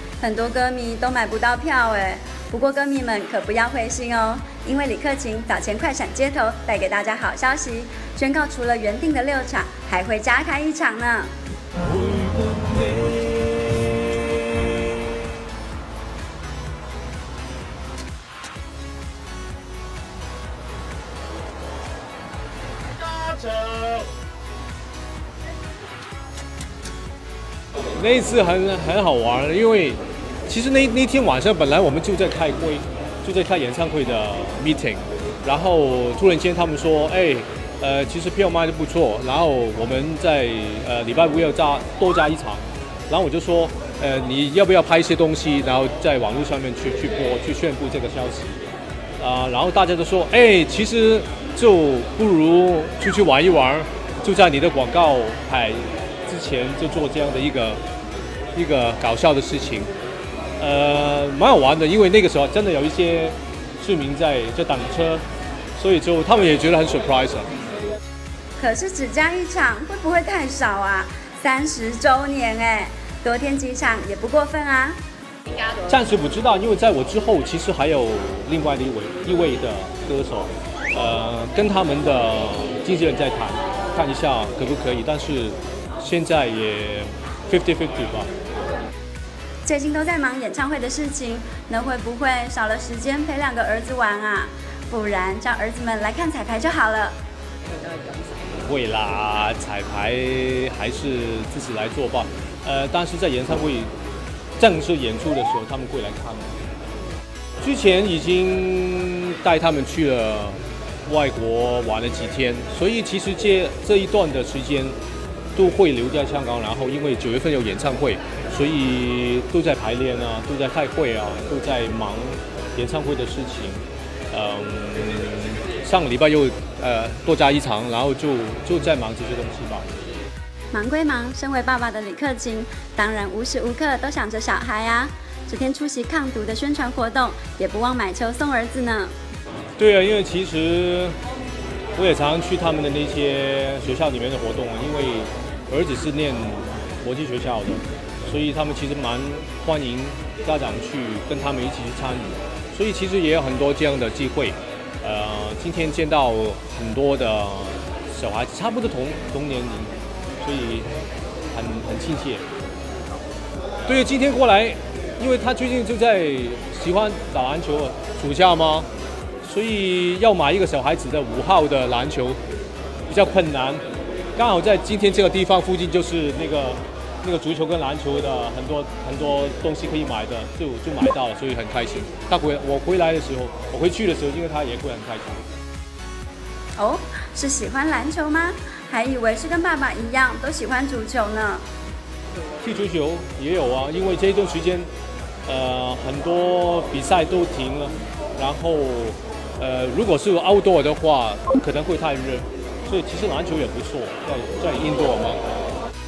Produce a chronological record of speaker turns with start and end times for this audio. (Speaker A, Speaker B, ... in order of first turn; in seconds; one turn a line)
Speaker A: 0.2-11.3
Speaker B: 28.0-48.6
Speaker B: 49.2-57.8
Speaker B: 58.5-59.9
Speaker B: 60.6-65.2
Speaker B: 65.8-67.5
Speaker A: 68.6-75.0
Speaker B: 75.8-88.3
Speaker A: 89.6-97.2
Speaker B: 98.5-103.9
Speaker B: 104.6-106.6
Speaker B: 107.6-115.0
Speaker B: 115.5-129.9
Speaker A: 130.7-139.1
Speaker B: 139.8-141.2
Speaker B: 141.9-160.9
Speaker B: 161.5-162.4
Speaker B: 163.8-168.9
Speaker B: 169.4-172.4
Speaker B: 173.1-173.8
Speaker B: 174.3-185.4
Speaker A: 186.8-191.6
Speaker B: 192.6-194.9
Speaker B: 195.4-205.4